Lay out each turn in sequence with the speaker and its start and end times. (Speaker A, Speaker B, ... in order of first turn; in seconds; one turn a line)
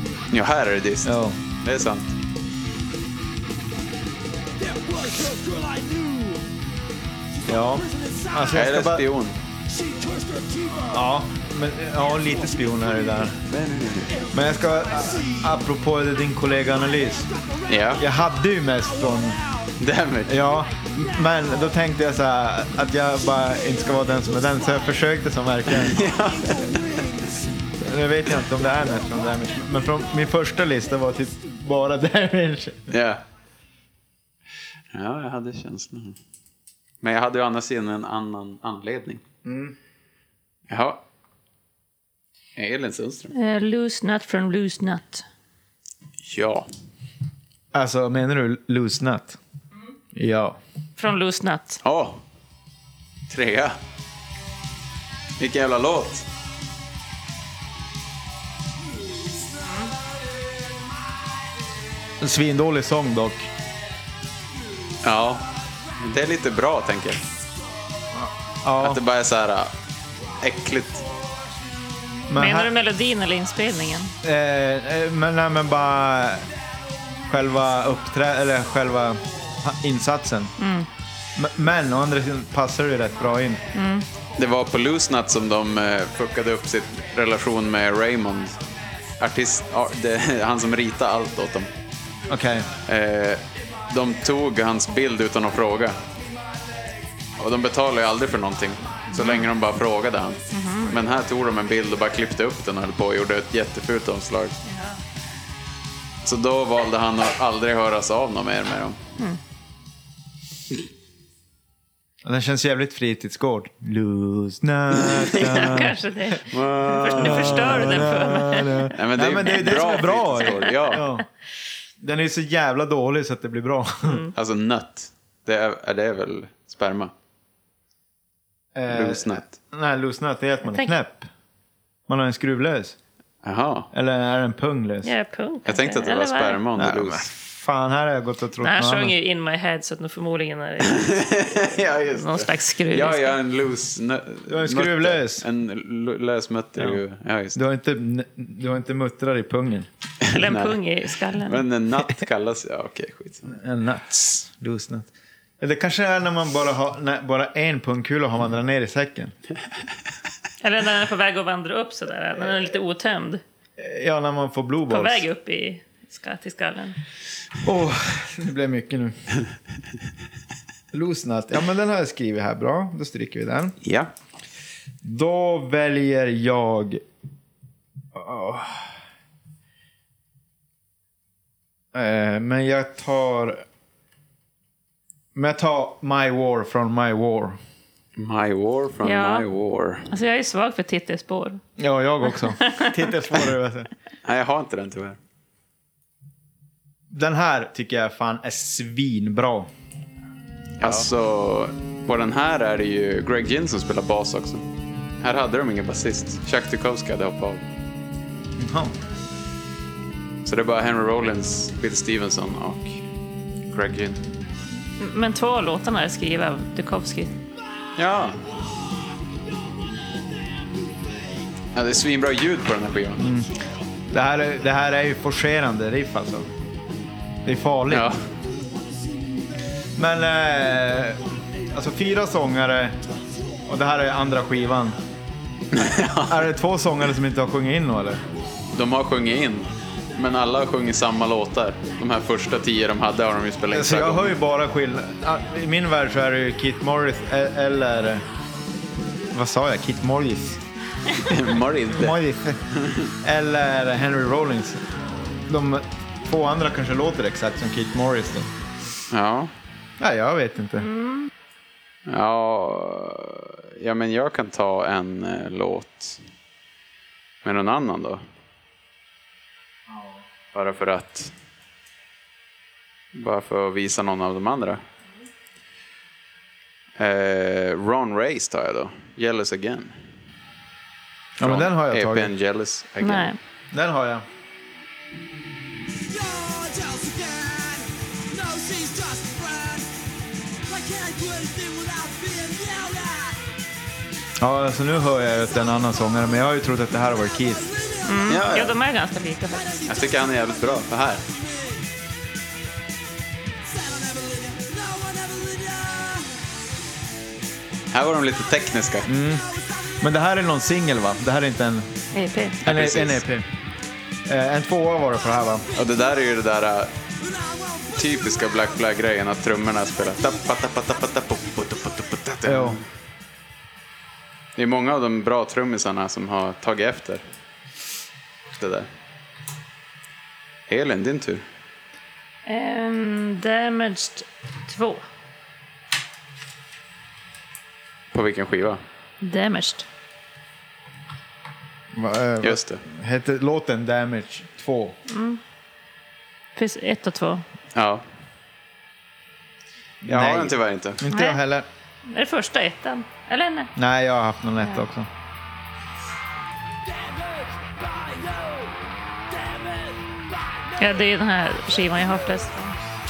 Speaker A: 0.3-2.1
Speaker B: 1.0-1.4
Speaker C: 4.6-6.5
Speaker C: 7.4-8.6
Speaker B: 7.5-9.1
Speaker A: 8.5-9.4
Speaker C: 9.7-11.0
Speaker B: 10.9-13.4
Speaker A: 13.5-14.2
Speaker C: 14.1-15.5
Speaker B: 14.3-17.3
Speaker C: 17.2-18.0
Speaker A: 17.7-18.0
Speaker B: 18.0-19.4
Speaker C: 19.0-19.7
Speaker A: 19.8-20.3
Speaker B: 20.3-26.0
Speaker C: 20.9-21.4
Speaker C: 23.9-24.8
Speaker A: 25.8-26.8
Speaker C: 25.9-27.5
Speaker B: 27.8-32.9
Speaker C: 28.8-29.2
Speaker A: 32.9-33.2
Speaker A: 34.9-36.2
Speaker A: 37.0-39.2
Speaker B: 39.4-39.8
Speaker A: 40.7-41.0
Speaker A: 42.5-43.3
Speaker D: 43.3-45.2
Speaker A: 46.2-46.7
Speaker B: 47.7-49.4
Speaker B: 50.1-50.6
Speaker D: 51.0-51.8
Speaker A: 51.8-52.2
Speaker A: 53.3-53.8
Speaker A: 55.4-56.3
Speaker D: 59.6-59.9
Speaker B: 62.2-63.5
Speaker A: 65.0-65.5
Speaker A: 66.0-67.2
Speaker B: 68.1-69.0
Speaker A: 68.8-69.7
Speaker A: 70.4-71.1
Speaker B: 72.3-72.7
Speaker D: 72.3-74.1
Speaker B: 74.2-76.5
Speaker B: 77.3-80.5
Speaker D: 80.6-80.9
Speaker B: 81.3-83.6
Speaker D: 83.7-84.0
Speaker A: 84.4-88.6
Speaker A: 89.2-91.7
Speaker B: 92.3-92.7
Speaker A: 92.8-96.0
Speaker A: 97.4-104.6
Speaker D: 99.1-99.5
Speaker D: 100.5-101.0
Speaker D: 104.7-105.0
Speaker A: 106.2-109.0
Speaker B: 112.2-116.0
Speaker A: 115.0-115.8
Speaker D: 115.3-118.9
Speaker A: 116.5-118.2
Speaker B: 117.2-121.3
Speaker A: 118.9-121.0
Speaker D: 119.5-121.0
Speaker B: 122.0-124.3
Speaker D: 124.0-124.3
Speaker A: 124.3-127.1
Speaker B: 128.7-131.3
Speaker A: 128.9-129.5
Speaker D: 130.6-130.9
Speaker B: 132.1-132.9
Speaker A: 133.4-133.9
Speaker B: 133.9-135.1
Speaker D: 135.0-136.6
Speaker A: 135.7-137.3
Speaker B: 136.8-139.1
Speaker D: 138.6-141.3
Speaker A: 140.9-147.6
Speaker D: 142.1-143.3
Speaker B: 144.5-145.4
Speaker B: 147.5-149.9
Speaker A: 150.2-150.8
Speaker D: 150.3-151.6
Speaker A: 151.4-153.5
Speaker B: 153.5-159.3
Speaker D: 160.6-163.4
Speaker B: 163.8-165.2
Speaker D: 164.9-167.0
Speaker B: 167.6-169.2
Speaker B: 170.9-173.8
Speaker A: 173.8-174.1
Speaker B: 175.0-177.0
Speaker B: 178.1-178.9
Speaker B: 181.9-183.6
Speaker B: 185.3-187.6
Speaker A: 188.2-190.1
Speaker D: 189.0-189.5
Speaker D: 190.1-191.6
Speaker B: 191.8-193.9
Speaker D: 192.3-193.0
Speaker A: 194.2-195.2
Speaker B: 197.1-199.7
Speaker A: 200.8-204.6
Speaker A: 205.2-207.6
Speaker B: 208.6-208.9
Speaker A: 210.4-213.0
Speaker A: 213.7-214.2
Speaker D: 215.0-217.3
Speaker A: 218.0-218.4
Speaker C: 218.9-221.4
Speaker A: 221.7-223.3
Speaker B: 223.2-223.5
Speaker B: 224.1-226.5
Speaker B: 227.4-228.1
Speaker A: 227.9-228.2
Speaker C: 228.5-229.9
Speaker B: 229.9-233.0
Speaker B: 233.7-235.0
Speaker A: 235.7-236.5
Speaker B: 236.2-238.2
Speaker A: 238.7-244.3
Speaker B: 243.7-248.2
Speaker B: 249.3-250.6
Speaker A: 251.2-252.2
Speaker B: 251.9-252.6
Speaker A: 252.7-253.1
Speaker B: 253.2-254.8
Speaker B: 255.4-258.5
Speaker A: 259.1-259.5
Speaker B: 260.0-260.9
Speaker D: 260.8-261.3
Speaker A: 262.1-266.2
Speaker A: 267.4-268.2
Speaker A: 270.5-271.3
Speaker A: 273.1-274.8
Speaker A: 277.0-280.0
Speaker B: 281.4-282.3
Speaker A: 281.4-283.3
Speaker D: 283.0-283.4
Speaker B: 283.7-284.2
Speaker C: 286.0-289.9
Speaker C: 290.6-293.4
Speaker B: 294.4-297.7
Speaker C: 297.7-298.4
Speaker D: 298.0-299.7
Speaker A: 298.3-298.7
Speaker C: 299.5-301.8
Speaker A: 299.9-301.2
Speaker C: 303.7-306.2
Speaker A: 307.9-309.1
Speaker B: 309.1-309.4
Speaker C: 309.5-309.9
Speaker B: 310.0-311.9
Speaker D: 312.1-312.6
Speaker A: 312.6-313.2
Speaker B: 312.6-313.4
Speaker B: 314.2-315.7
Speaker A: 315.7-316.9
Speaker C: 317.2-318.6
Speaker A: 317.9-322.9
Speaker B: 322.4-322.8
Speaker A: 324.6-327.2
Speaker A: 328.5-328.9
Speaker A: 330.7-331.4
Speaker D: 332.4-335.0
Speaker A: 338.1-338.8
Speaker D: 339.2-339.9
Speaker B: 341.9-345.0
Speaker A: 342.4-342.8
Speaker D: 345.1-345.4
Speaker D: 346.6-347.4
Speaker A: 347.7-348.0
Speaker B: 350.0-351.7
Speaker A: 350.1-351.0
Speaker D: 351.1-351.4
Speaker D: 352.0-353.7
Speaker B: 353.8-355.1
Speaker C: 356.9-358.7
Speaker C: 359.3-360.8
Speaker D: 360.8-362.8